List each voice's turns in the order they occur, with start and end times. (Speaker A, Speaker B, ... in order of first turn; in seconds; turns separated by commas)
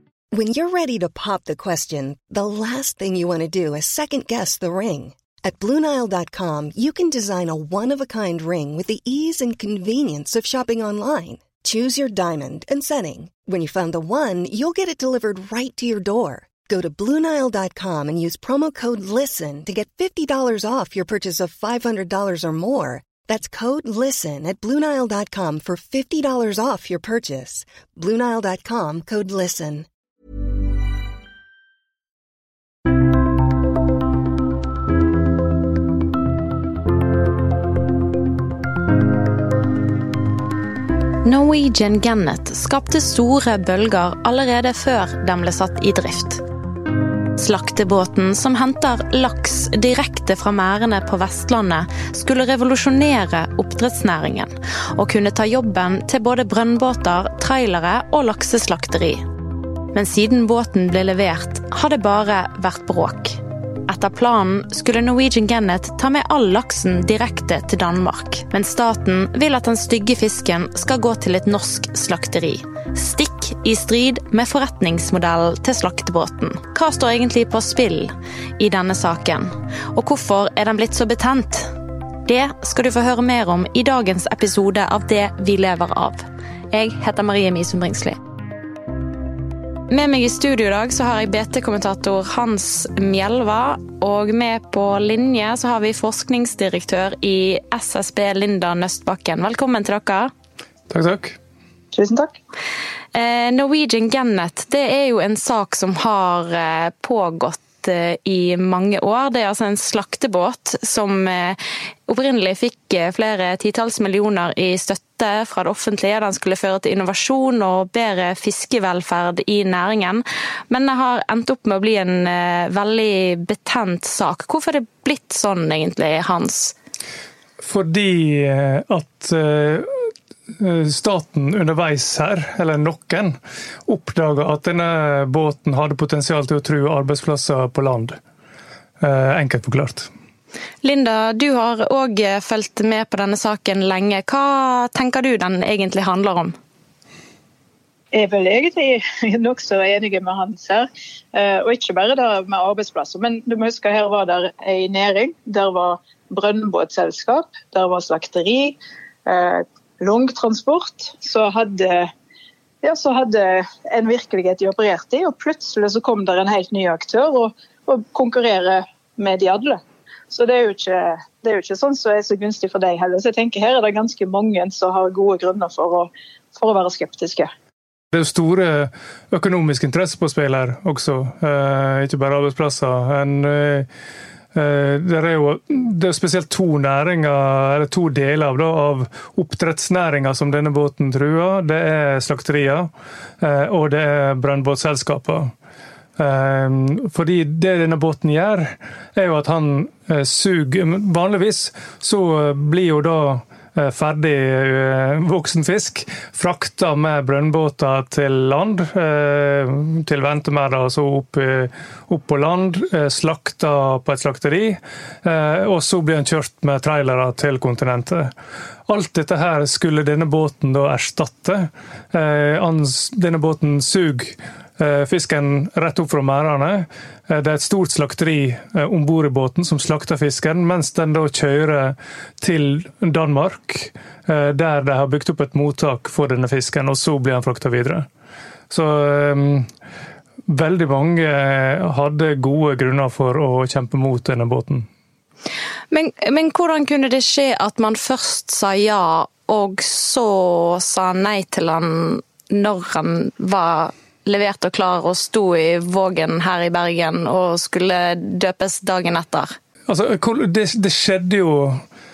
Speaker A: 0.3-29.9, Speaker B: 41.2-46.4, Speaker B: 47.4-59.3, Speaker B: 59.9-81.7, Speaker B: 82.2-88.2, Speaker B: 89.9-100.3, Speaker C: 100.9-101.4, Speaker D: 101.9-102.4, Speaker B: 103.1-126.8, Speaker C: 127.6-133.4, Speaker C: 133.9-138.2, Speaker C: 139.0-140.1, Speaker B: 140.8-146.6, Speaker D: 148.1-162.1, Speaker D: 162.8-177.5, Speaker C: 178.1-183.9, Speaker C: 184.5-195.5, Speaker C: 196.2-218.3, Speaker C: 218.9-238.1, Speaker C: 238.7-239.7, Speaker C: 240.5-244.9, Speaker B: 245.9-259.6, Speaker C: 259.9-261.8